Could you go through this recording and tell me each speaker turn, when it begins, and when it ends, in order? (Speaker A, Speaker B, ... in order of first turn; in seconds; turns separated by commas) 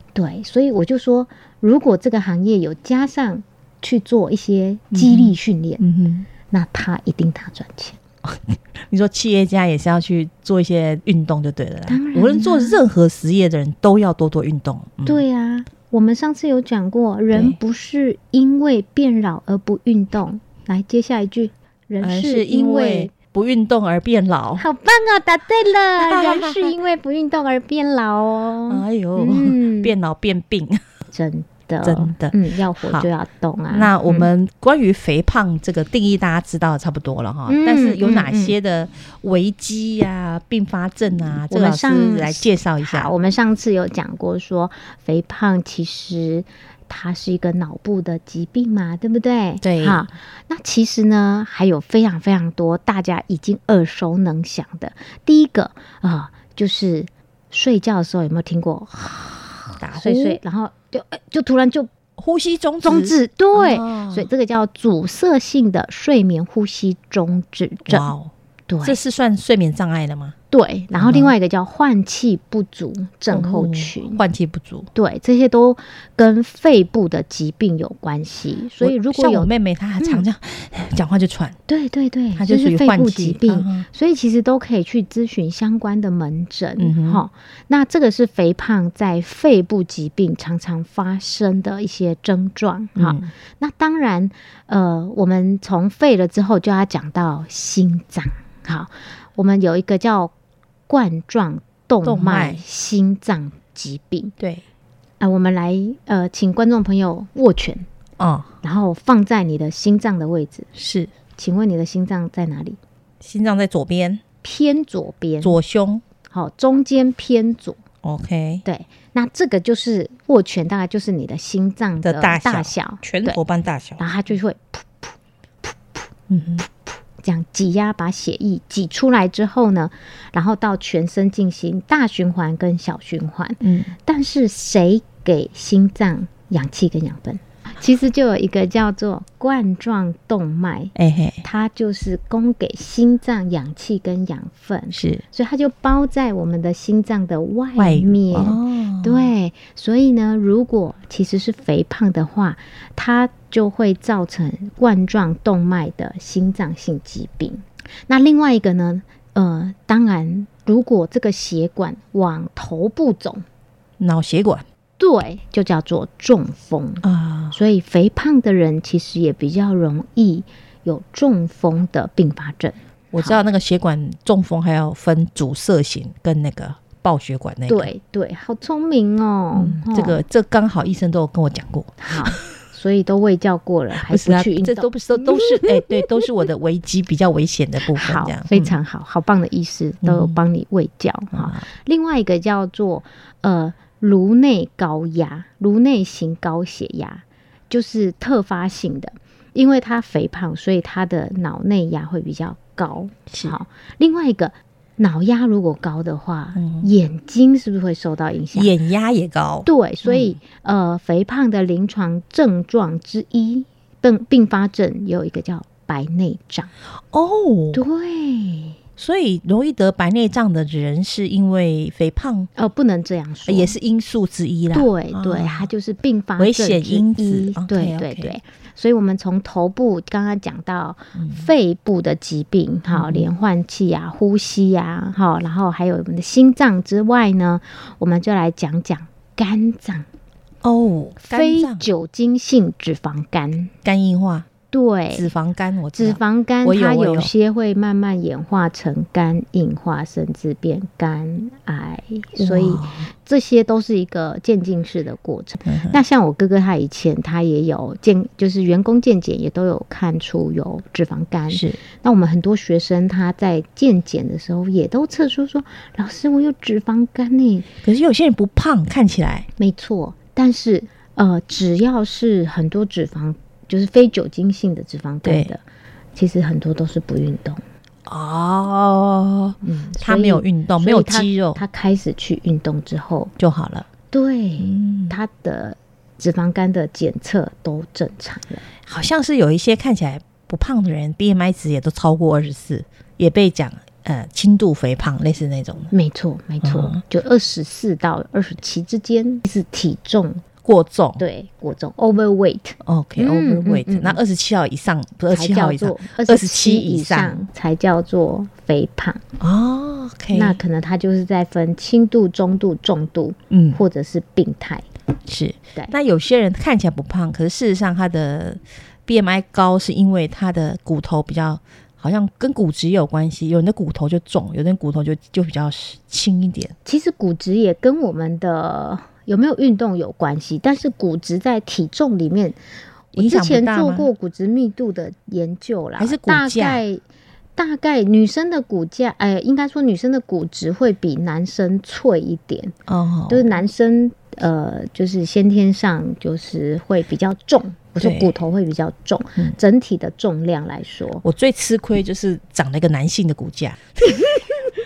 Speaker A: 0.1-5.8, Speaker B: 4.9-6.3, Speaker A: 6.5-8.0, Speaker B: 8.2-15.2, Speaker A: 11.9-12.8, Speaker A: 15.1-23.1, Speaker B: 17.3-17.6, Speaker B: 22.0-24.6, Speaker A: 24.6-29.9, Speaker B: 26.0-26.7, Speaker B: 28.7-30.8, Speaker A: 31.1-34.3, Speaker B: 31.8-33.1, Speaker B: 33.7-43.1, Speaker A: 37.5-38.5, Speaker A: 41.5-61.9, Speaker B: 49.6-50.1, Speaker B: 59.8-60.4, Speaker B: 62.2-64.3, Speaker A: 62.8-68.1, Speaker B: 67.9-68.3, Speaker A: 68.7-69.0, Speaker B: 68.8-70.3, Speaker A: 70.5-74.2, Speaker B: 71.0-71.3, Speaker B: 73.3-74.9, Speaker A: 75.0-80.2, Speaker B: 78.8-81.6, Speaker A: 81.7-100.3, Speaker B: 82.3-83.9, Speaker B: 86.8-87.2, Speaker B: 93.0-93.3, Speaker A: 100.9-104.3, Speaker B: 102.0-102.6, Speaker A: 105.2-107.9, Speaker B: 108.2-108.5, Speaker A: 108.6-110.7, Speaker B: 110.8-111.1, Speaker A: 111.4-112.8, Speaker B: 113.2-114.2, Speaker A: 114.4-115.6, Speaker B: 115.4-116.0, Speaker A: 116.3-117.8, Speaker B: 118.0-118.6, Speaker A: 118.7-123.4, Speaker B: 122.0-124.0, Speaker A: 124.0-126.1, Speaker B: 126.3-126.7, Speaker A: 126.6-163.4, Speaker B: 133.6-133.9, Speaker B: 140.9-141.4, Speaker B: 144.9-145.2, Speaker B: 147.8-149.3, Speaker B: 164.0-164.7, Speaker A: 165.0-173.4, Speaker B: 167.0-167.6, Speaker B: 173.1-177.9, Speaker A: 177.7-180.2, Speaker B: 179.6-182.4, Speaker A: 182.0-186.1, Speaker B: 184.1-188.8, Speaker A: 187.9-208.7, Speaker B: 190.0-190.4, Speaker B: 191.3-191.7, Speaker B: 203.3-203.6, Speaker B: 206.6-206.9, Speaker B: 208.5-210.4, Speaker A: 209.7-216.7, Speaker B: 217.1-217.8, Speaker A: 217.7-218.8, Speaker B: 219.0-222.5, Speaker A: 222.6-223.8, Speaker B: 223.5-225.7, Speaker A: 224.7-240.1, Speaker B: 226.4-228.3, Speaker B: 231.2-231.5, Speaker B: 232.9-233.3, Speaker B: 240.6-241.9, Speaker A: 241.2-243.7, Speaker B: 243.8-244.5, Speaker A: 244.7-245.3, Speaker B: 245.1-247.3, Speaker A: 245.9-267.7, Speaker B: 252.4-253.1, Speaker B: 255.7-256.0, Speaker B: 261.5-261.8, Speaker B: 267.8-269.5, Speaker A: 269.6-275.6, Speaker B: 275.2-275.5, Speaker A: 276.2-277.6, Speaker B: 278.1-281.6, Speaker A: 279.6-283.3, Speaker B: 283.4-283.9, Speaker A: 284.1-288.6, Speaker B: 284.6-285.2, Speaker B: 288.9-295.9, Speaker A: 295.9-300.4, Speaker B: 296.6-297.0, Speaker B: 300.6-301.2, Speaker A: 301.2-304.2, Speaker B: 302.8-307.4, Speaker A: 305.3-309.2, Speaker B: 309.4-310.6, Speaker A: 310.3-314.9, Speaker B: 313.5-313.8, Speaker B: 315.3-326.8, Speaker A: 326.9-332.6, Speaker B: 333.1-334.1, Speaker A: 333.1-337.0, Speaker B: 336.0-336.8, Speaker A: 337.6-342.8, Speaker B: 342.9-343.6, Speaker A: 343.3-351.2, Speaker B: 348.0-348.3, Speaker B: 351.2-354.0, Speaker A: 354.1-354.6